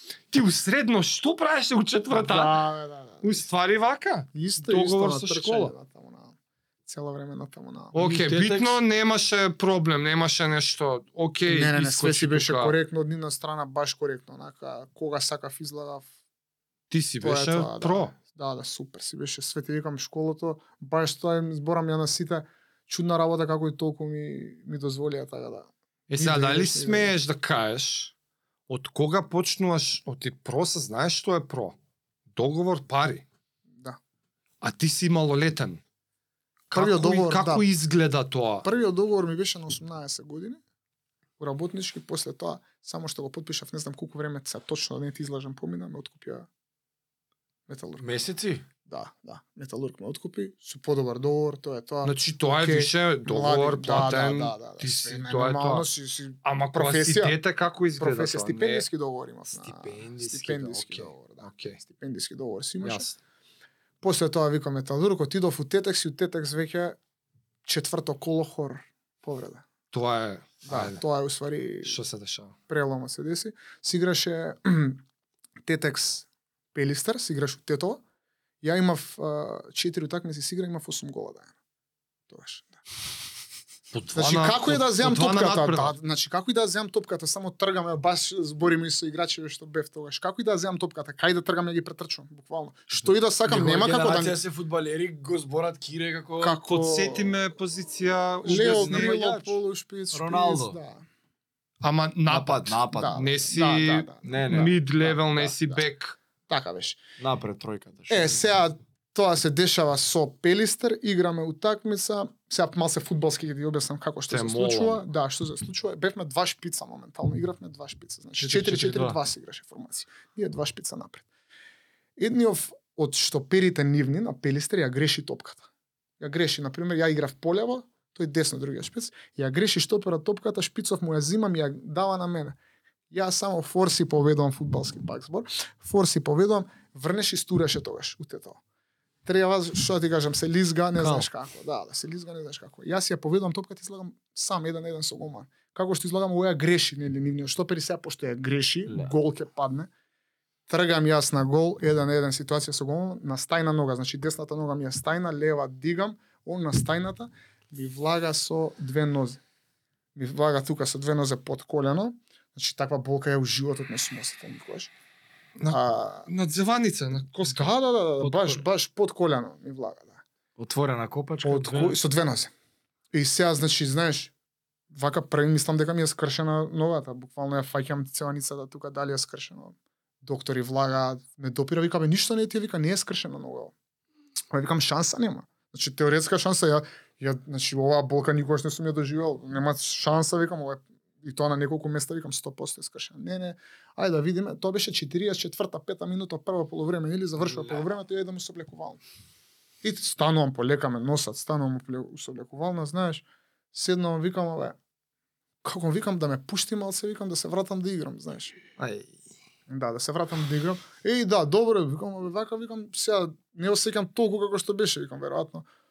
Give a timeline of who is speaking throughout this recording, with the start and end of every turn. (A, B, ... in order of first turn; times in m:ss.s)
0:00.3-0:02.6 A
0:02.1-0:03.4 B
0:03.2-0:05.7 A
0:04.3-0:08.0 B
0:07.9-0:12.8 A
0:08.0-0:08.8 C
0:11.5-0:16.1 B
0:16.9-0:18.2 A
0:17.2-0:27.2 B
0:26.1-0:28.1 A
0:28.7-0:31.8 A
0:32.4-0:33.2 A
0:34.6-0:35.8 A
0:36.7-0:38.7 A
0:36.7-0:37.6 B
0:38.6-0:40.6 B
0:41.4-0:46.5 B
0:47.7-0:48.1 B
0:48.0-0:48.7 C
0:48.9-0:57.4 B
0:52.0-0:55.9 A
0:56.4-0:58.9 A
0:58.0-1:03.1 B
0:59.5-1:01.8 A
1:02.8-1:03.2 A
1:04.0-1:07.0 B
1:07.6-1:09.6 B
1:09.9-1:11.0 A
1:10.6-1:12.0 B
1:11.8-1:12.6 A
1:12.7-1:15.0 B
1:15.6-1:18.0 B
1:18.6-1:21.5 B
1:22.3-1:22.8 B
1:23.9-1:26.0 A
1:24.1-1:34.4 B
1:33.5-1:36.6 C
1:36.4-1:37.3 B
1:36.7-1:39.2 A
1:38.4-1:41.0 B
1:38.5-1:39.6 C
1:40.1-1:40.8 C
1:41.8-1:46.2 A
1:42.3-1:43.3 C
1:42.9-1:45.8 B
1:44.2-1:44.7 C
1:46.5-1:47.0 B
1:47.2-1:48.4 C
1:48.1-2:01.2 B
1:54.3-1:55.0 A
1:58.4-1:59.2 C
2:02.2-2:05.7 B
2:06.2-2:12.6 B
2:13.1-2:18.6 B
2:19.2-2:29.9 B
2:21.0-2:21.3 C
2:28.9-2:29.1 C
2:30.7-2:39.4 B
2:40.2-2:44.9 B
2:45.6-2:47.7 A
2:45.7-2:46.3 B
2:47.4-2:50.2 B
2:50.6-2:52.0 C
2:51.4-2:52.5 B
2:53.1-2:54.3 B
2:54.9-3:03.7 B
3:04.5-3:19.0 B
3:19.8-3:24.8 B
3:25.6-3:28.6 B
3:28.8-3:29.1 A
3:29.7-3:35.6 B